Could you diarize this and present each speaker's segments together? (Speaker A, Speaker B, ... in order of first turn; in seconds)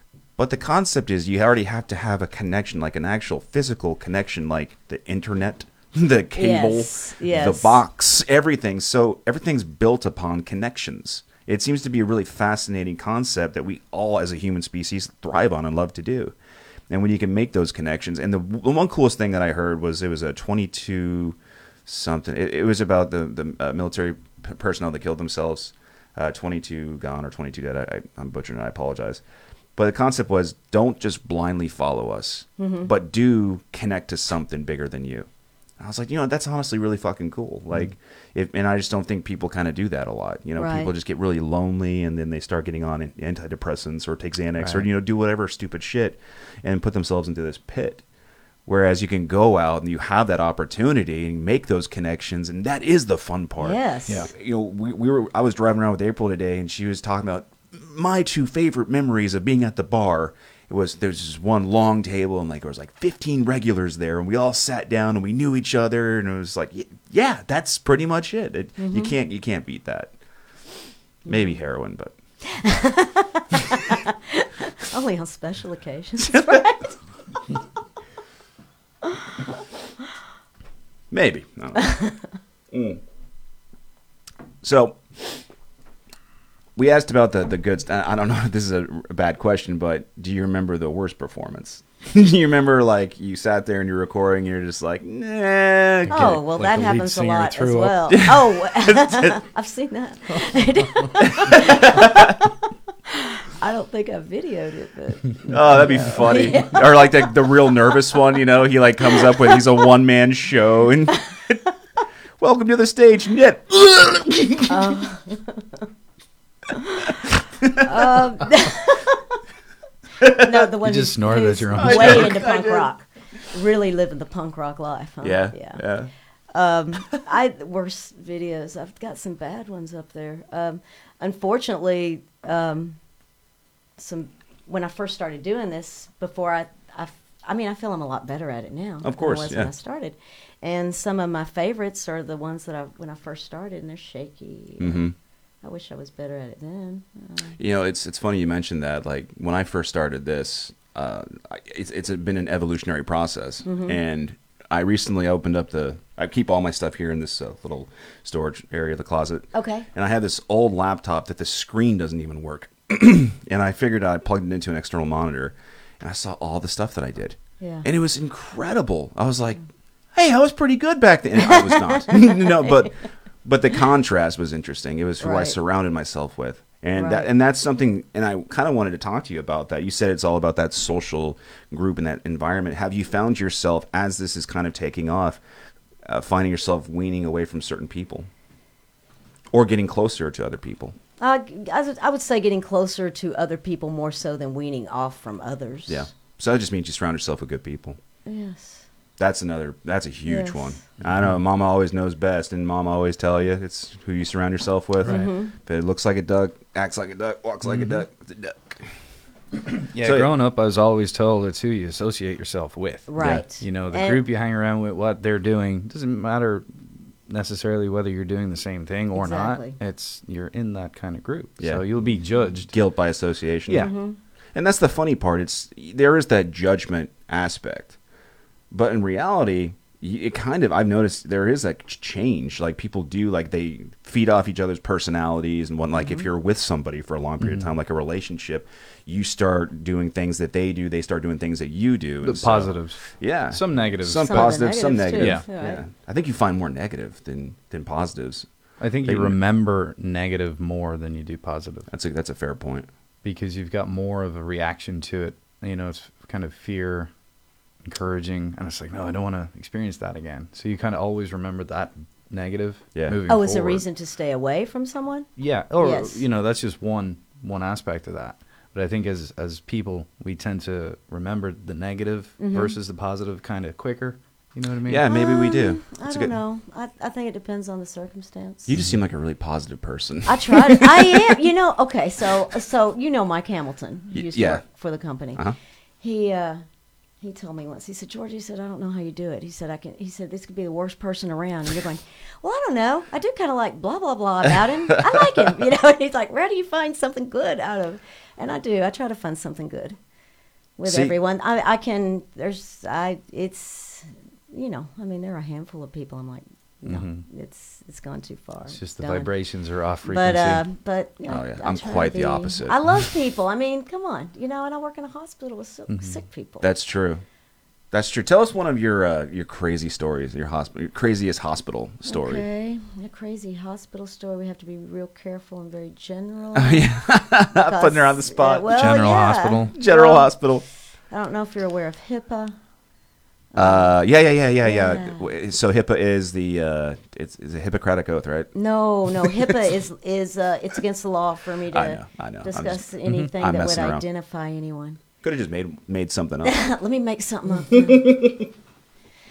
Speaker A: 0.4-16.3, 16.9-29.2, 29.8-35.3, 35.8-48.0, 48.7-70.1, 71.2-72.2, 76.3-76.6, 81.1-82.0, 82.7-83.0, 84.6-85.4, 86.8-96.4, 98.1-99.4, 101.2-102.5, 105.5-111.6, 112.4-115.0, 117.6-118.0, 120.2-120.5, 121.8-122.9, 125.2-126.1, 139.0-139.7, 144.8-145.1, 147.6-169.6, 170.2-185.4, 186.1-188.3, 189.5-191.0, 195.9-198.0, 199.2-208.8, 210.0-210.3, 221.6-221.8, 222.7-223.9, 224.6-228.0, 228.7-248.5, 249.0-249.4, 251.9-252.9, 262.9-263.6, 274.9-276.4, 278.7-281.3, 284.1-284.6, 300.9-301.2, 311.3-312.8, 316.6-317.2, 317.9-322.4, 326.6-329.1, 329.7-330.6, 333.6-338.5, 339.2-339.6, 341.7-344.0, 345.2-346.5, 347.7-348.4
Speaker B: 6.4-7.8, 32.6-32.9, 40.6-40.9, 53.6-54.3, 68.8-69.1, 71.3-71.5, 72.5-77.0, 79.0-79.6, 81.8-82.1, 96.1-102.5, 103.1-107.5, 114.7-115.9, 116.7-119.4, 120.2-125.8, 126.5-133.0, 134.0-145.0, 145.6-147.6, 153.7-154.0, 159.5-159.9, 167.6-167.9, 171.4-172.9, 175.2-175.6, 177.0-177.3, 191.2-196.1, 198.3-198.9, 200.3-200.8, 205.1-205.5, 213.1-214.2, 219.2-219.8, 223.7-224.2, 236.0-236.2, 244.2-245.8, 263.3-266.2, 272.4-272.8, 275.1-278.7, 280.3-285.4, 286.0-286.6, 287.2-300.0, 300.8-309.3, 310.0-316.7, 322.1-327.0, 327.6-330.3, 331.1-332.6, 333.5-333.9, 334.6-335.3, 338.5-345.0, 346.4-348.2
Speaker C: 44.6-44.9, 96.1-98.1, 120.8-122.4, 207.6-208.0, 209.7-222.7, 223.7-223.9, 237.4-237.7, 242.2-244.6, 245.2-245.5, 248.8-251.9, 253.2-257.1, 257.8-263.8, 265.4-275.1, 306.9-307.2, 308.7-310.6, 315.9-316.2, 328.7-329.7